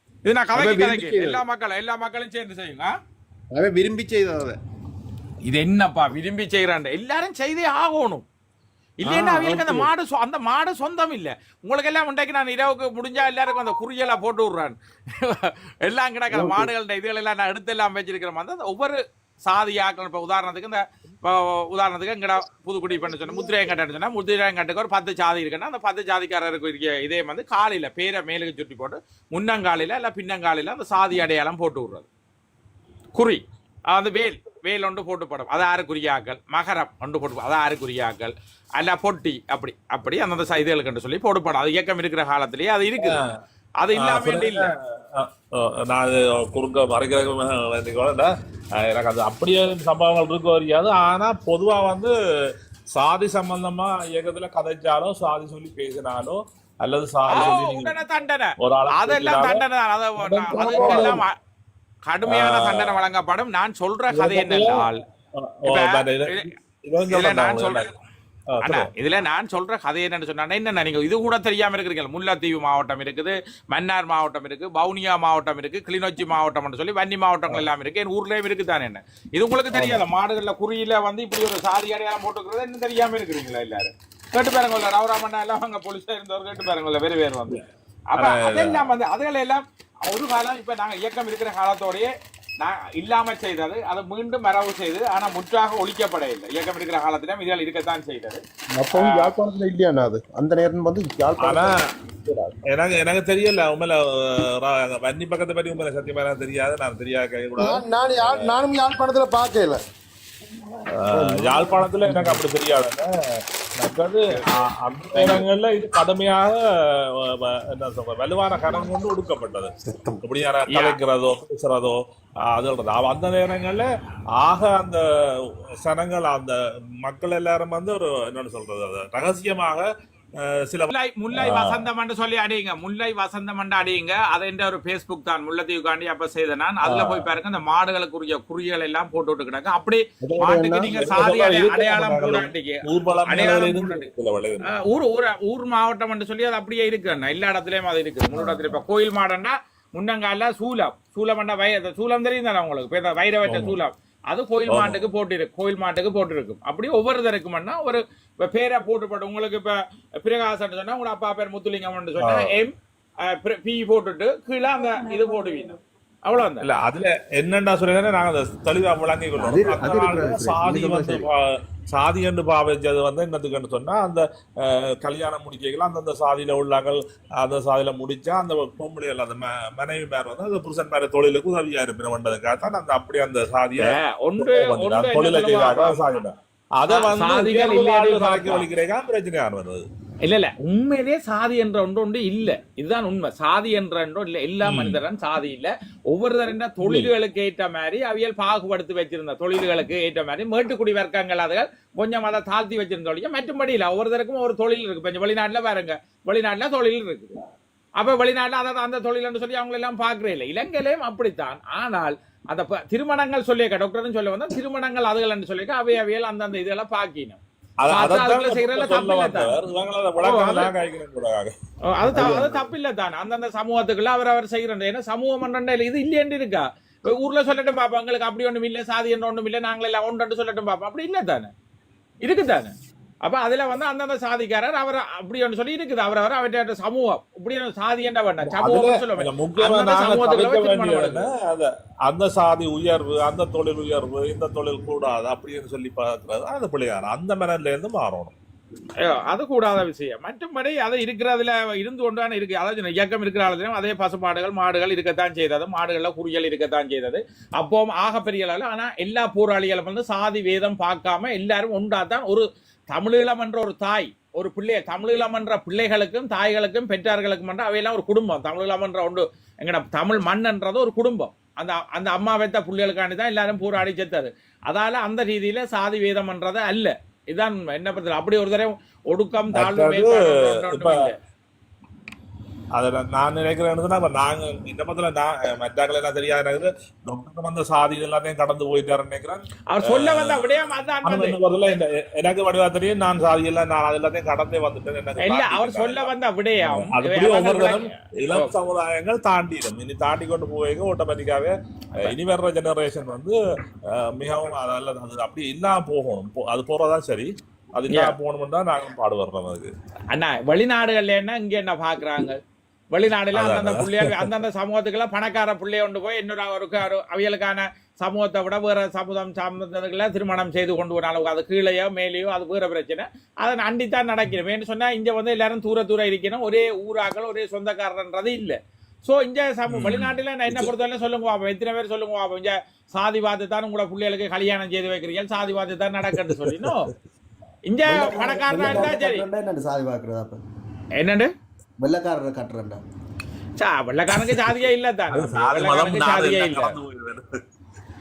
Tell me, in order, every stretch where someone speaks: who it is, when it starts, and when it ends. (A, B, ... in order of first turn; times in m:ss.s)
0:00.2-0:03.0 A
0:03.6-0:04.5 B
0:05.4-0:08.2 A
0:09.0-0:32.1 A
0:09.2-0:09.5 B
0:33.2-0:43.2 A
0:43.0-0:43.4 C
0:43.8-0:44.7 A
0:44.0-0:52.1 C
0:52.9-0:58.0 C
0:57.3-1:01.3 A
0:58.6-0:59.6 C
1:00.2-1:01.2 C
1:00.6-1:01.2 D
1:02.1-1:05.0 A
1:02.3-1:03.0 C
1:04.1-1:07.8 C
1:05.7-1:06.5 A
1:07.1-1:07.8 A
1:08.5-1:08.9 C
1:08.6-1:27.6 A
1:19.7-1:20.0 C
1:28.1-1:38.4 A
1:28.2-1:28.9 C
1:38.8-1:42.6 D
1:38.9-1:39.3 A
1:41.4-1:41.8 C
1:42.7-1:48.6 C
1:47.6-1:49.8 E
1:51.0-1:53.1 C
1:51.2-1:52.4 D
1:53.8-1:56.6 C
1:57.2-1:59.7 C
2:00.2-2:03.9 C
2:00.7-2:01.0 A
2:04.4-2:05.0 C
2:05.8-2:09.8 C
2:10.4-2:11.9 C
2:10.9-2:24.1 A
2:16.9-2:17.3 C
2:20.4-2:24.7 C
2:24.7-2:42.7 A
2:33.5-2:33.8 C
2:34.7-2:35.1 C
2:43.2-2:46.6 A
2:46.6-3:09.9 C
2:49.4-2:51.3 B
3:03.8-3:06.2 A
3:06.9-3:08.6 A
3:10.2-3:27.4 A
3:14.6-3:15.0 C
3:16.8-3:17.1 C
3:28.0-3:37.4 A
3:37.8-3:41.5 C
3:37.9-3:39.6 A
3:40.2-3:40.7 A
3:41.9-3:51.5 A
3:42.1-3:42.6 D
3:52.2-3:52.7 A
3:53.2-4:01.2 A
3:58.6-4:08.4 C
4:09.0-4:41.2 A
4:39.5-4:41.0 C
4:42.7-4:56.1 C
4:49.7-4:51.4 A
4:55.2-4:58.5 A
4:56.6-5:03.4 C
5:03.9-5:09.7 C
5:07.9-5:08.2 A
5:10.1-5:12.4 A
5:12.9-5:36.9 A
5:13.3-5:14.3 C
5:29.7-5:30.7 C
5:37.7-5:39.2 A
5:37.8-5:40.4 F
5:41.0-5:41.3 A
5:41.8-5:42.8 F
5:43.6-5:46.8 A
5:44.2-5:44.6 C
5:45.1-5:47.4 C